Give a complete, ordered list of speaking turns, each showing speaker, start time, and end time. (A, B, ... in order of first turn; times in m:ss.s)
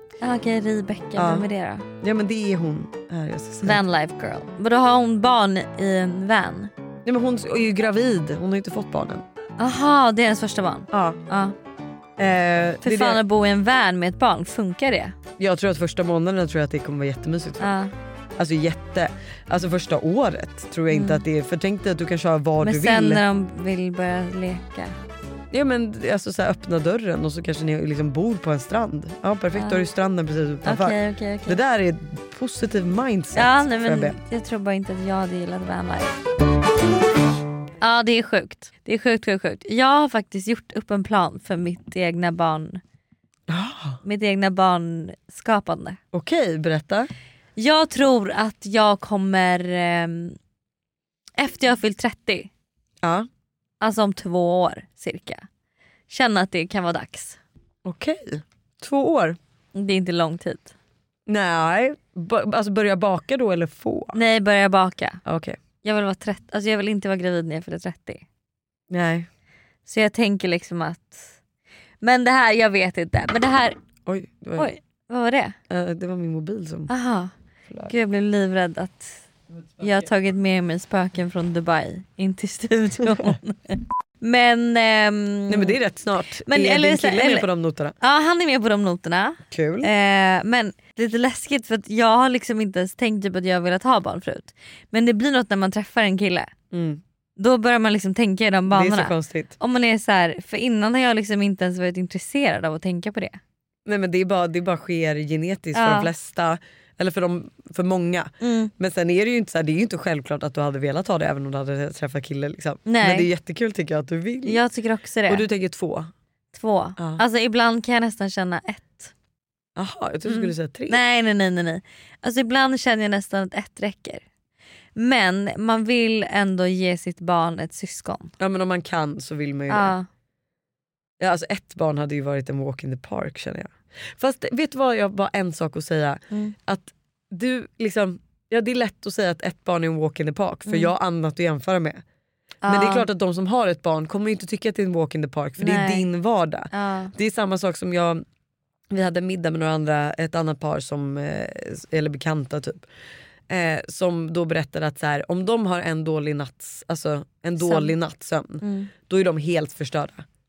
0:00.2-0:01.8 A
0:01.2-0:01.5 B
0:02.0-0:03.8 B
0:03.6-0:06.7 A
0:07.0-0:09.2 B
0:09.6-0:11.6 A
0:10.9-0:11.2 B
0:12.2-0:13.2 B
0:12.8-0:15.1 A
0:15.4-0:17.7 B
0:17.6-0:17.9 A
0:18.4-0:23.2 B
0:20.9-0:21.2 A
0:22.6-0:24.9 A
0:25.5-0:34.2 B
0:29.6-0:29.8 A
0:30.6-0:31.6 A
0:33.3-0:36.2 A
0:37.8-0:42.8 A
0:43.5-0:44.0 B
0:44.0-0:46.0 A
0:46.1-0:47.1 B
0:47.6-0:50.4 A
0:51.4-0:52.5 A
0:53.0-0:53.3 B
0:53.8-0:55.4 A
0:56.1-0:57.4 A
0:57.8-0:59.4 B
0:59.7-1:00.7 A
1:01.3-1:04.2 B
1:04.1-1:05.2 A
1:05.2-1:05.6 B
1:05.8-1:08.2 A
1:08.9-1:09.3 B
1:09.8-1:11.3 A
1:12.0-1:13.8 A
1:14.0-1:14.7 B
1:14.6-1:15.5 A
1:15.7-1:16.9 B
1:16.9-1:17.3 A
1:17.8-1:19.2 A
1:19.8-1:25.8 A
1:25.5-1:27.9 B
1:26.5-1:27.5 A
1:28.0-1:36.5 A
1:29.5-1:29.9 B
1:36.7-1:37.0 B
1:37.4-1:43.4 A
1:38.7-1:39.6 B
1:43.8-1:54.6 B
1:45.7-1:46.1 A
1:48.4-1:48.7 A
1:52.8-1:53.3 A
1:54.4-1:55.5 A
1:55.2-1:56.1 B
1:56.5-1:59.1 A
1:57.0-1:57.2 B
1:59.8-2:01.0 B
2:00.2-2:04.2 A
2:04.9-2:08.3 A
2:08.4-2:09.9 B
2:09.7-2:10.1 A
2:11.2-2:22.0 B
2:20.7-2:20.9 A
2:22.6-2:23.0 A
2:22.7-2:28.2 B
2:25.6-2:26.1 A
2:26.7-2:27.1 A
2:28.9-2:32.8 B
2:33.5-2:40.2 B
2:37.6-2:37.9 A
2:38.6-2:38.9 A